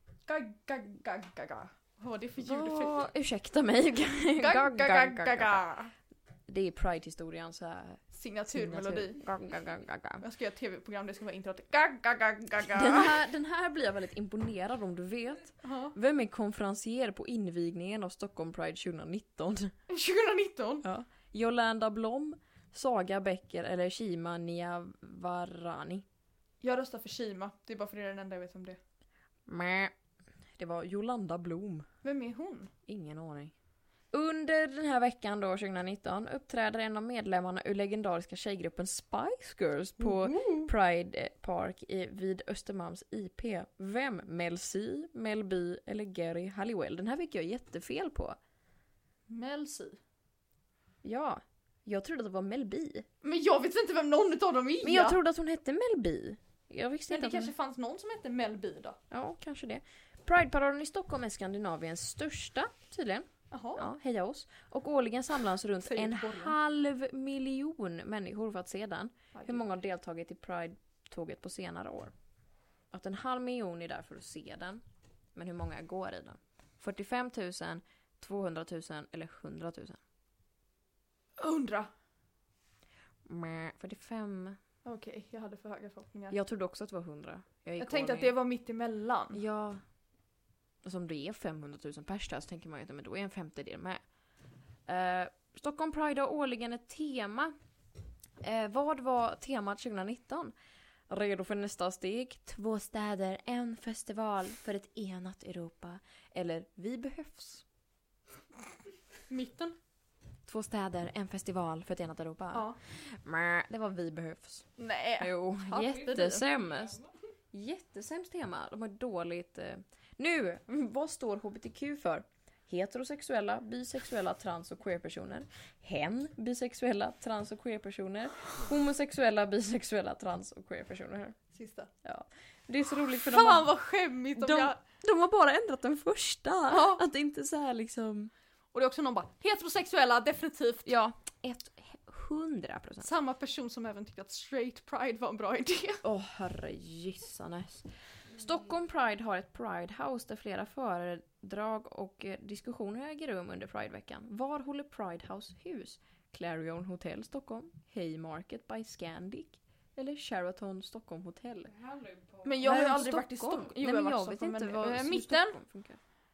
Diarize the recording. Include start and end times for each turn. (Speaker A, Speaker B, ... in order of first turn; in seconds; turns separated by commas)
Speaker A: 0.2-3.0, Speaker B: 2.4-5.7, Speaker A: 4.4-5.9, Speaker B: 6.5-10.2, Speaker A: 8.1-9.2, Speaker A: 10.2-13.2, Speaker B: 12.7-19.7, Speaker A: 15.6-15.9, Speaker A: 19.9-20.8, Speaker B: 20.8-26.0, Speaker A: 26.6-28.8, Speaker B: 29.5-29.9, Speaker B: 30.6-31.9, Speaker A: 32.0-32.7, Speaker B: 32.9-33.5, Speaker B: 34.1-48.4, Speaker A: 40.0-40.7, Speaker A: 49.3-50.0, Speaker B: 51.0-53.0, Speaker A: 53.2-55.2, Speaker B: 54.8-57.5, Speaker A: 57.1-59.0, Speaker B: 59.1-72.1, Speaker A: 63.5-63.9, Speaker A: 65.8-66.5, Speaker A: 69.3-69.6, Speaker B: 72.9-74.8, Speaker B: 75.3-80.0, Speaker A: 81.4-81.9, Speaker B: 83.2-84.6, Speaker A: 84.8-86.4, Speaker B: 86.3-88.3, Speaker A: 87.8-89.4, Speaker B: 89.3-89.8, Speaker B: 90.8-94.0, Speaker B: 94.8-97.5, Speaker B: 98.4-100.5, Speaker B: 101.1-107.6, Speaker A: 109.3-109.8, Speaker B: 110.5-114.7, Speaker A: 112.5-112.8, Speaker A: 114.8-116.4, Speaker B: 115.2-117.0, Speaker C: 115.8-117.1, Speaker B: 117.5-131.4, Speaker A: 131.5-131.9, Speaker B: 132.0-133.7, Speaker A: 133.1-134.8, Speaker B: 134.3-138.3, Speaker A: 136.7-137.0, Speaker A: 138.7-140.9, Speaker B: 140.8-143.1, Speaker A: 143.0-146.0, Speaker B: 146.0-161.7, Speaker C: 161.7-162.6, Speaker A: 162.4-165.6, Speaker B: 162.6-166.0